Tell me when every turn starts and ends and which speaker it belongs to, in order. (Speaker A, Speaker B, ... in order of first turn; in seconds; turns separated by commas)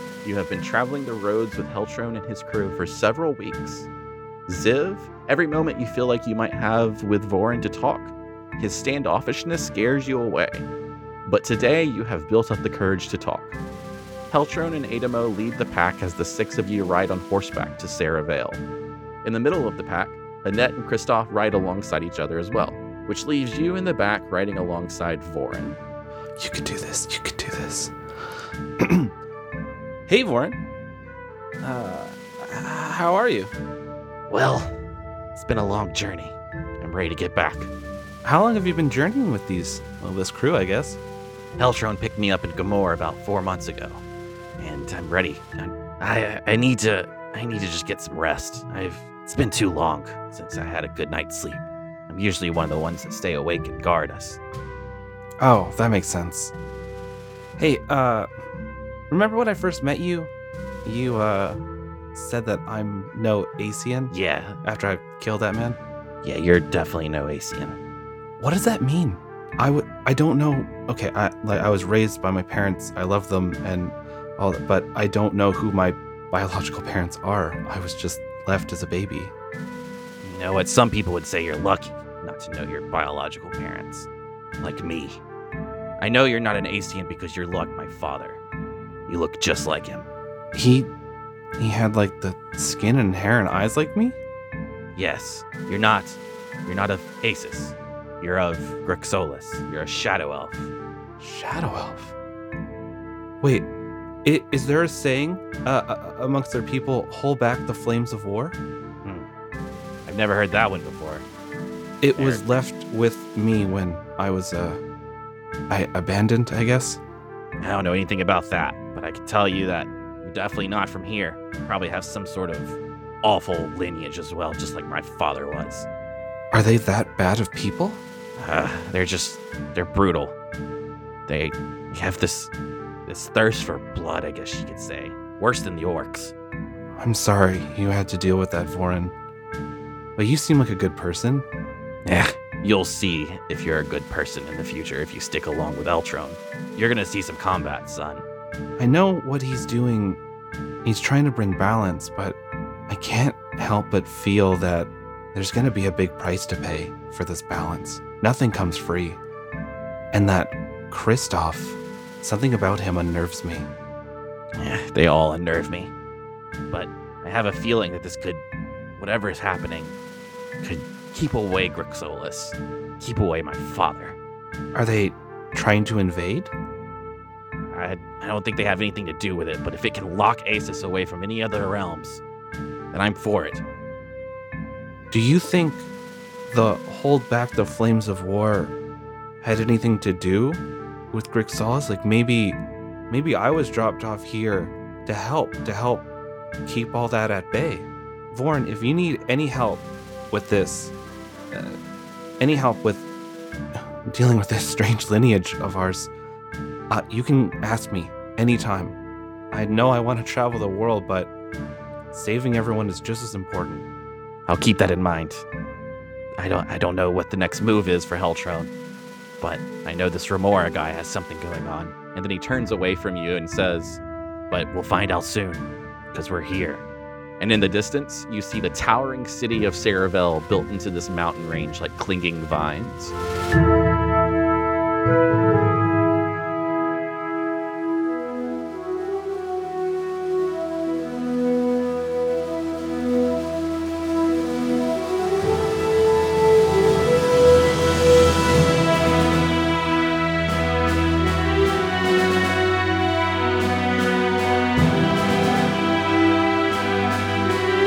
Speaker A: 0.2-3.9, Speaker A: 4.5-10.7, Speaker A: 11.2-13.6, Speaker A: 14.3-18.6, Speaker A: 19.2-25.8, Speaker B: 26.4-27.9, Speaker B: 28.8-29.1, Speaker A: 30.1-30.6, Speaker A: 31.6-33.5, Speaker A: 34.3-34.7, Speaker A: 35.4-37.7, Speaker B: 38.2-41.0, Speaker A: 40.0-40.9, Speaker A: 41.6-44.0, Speaker A: 44.6-54.4, Speaker B: 55.4-56.5, Speaker B: 57.6-58.3, Speaker B: 59.1-60.3, Speaker B: 60.8-61.6, Speaker B: 62.1-65.8, Speaker A: 64.1-64.6, Speaker A: 66.2-67.8, Speaker B: 68.4-79.3, Speaker A: 80.2-84.1, Speaker A: 84.6-85.2, Speaker A: 86.0-88.4, Speaker A: 89.1-90.1, Speaker B: 90.5-90.9, Speaker B: 91.6-94.2, Speaker A: 95.0-100.7, Speaker B: 101.2-102.1, Speaker B: 103.4-103.7, Speaker B: 104.2-108.6, Speaker A: 110.1-111.2, Speaker B: 112.0-114.8, Speaker A: 112.2-112.4, Speaker B: 115.7-117.0, Speaker A: 117.6-125.9, Speaker B: 126.5-128.0, Speaker A: 128.4-130.3, Speaker A: 131.3-132.5, Speaker A: 133.1-136.3, Speaker B: 137.0-139.1, Speaker B: 140.2-141.5, Speaker A: 142.1-148.2, Speaker B: 148.8-150.2, Speaker B: 150.8-159.2, Speaker B: 160.1-163.7, Speaker A: 164.6-165.9, Speaker A: 166.7-168.4, Speaker A: 169.0-169.9, Speaker A: 170.6-174.2, Speaker B: 174.7-176.5, Speaker A: 177.7-182.2, Speaker A: 182.9-183.6, Speaker B: 185.1-185.9, Speaker B: 186.5-188.8, Speaker B: 189.4-196.1, Speaker B: 196.7-200.9, Speaker B: 202.4-203.1, Speaker B: 203.8-206.1, Speaker B: 206.9-209.0, Speaker B: 209.5-211.3, Speaker B: 212.1-213.8, Speaker A: 214.5-215.4, Speaker A: 216.4-218.7, Speaker A: 219.4-226.8, Speaker A: 227.4-233.2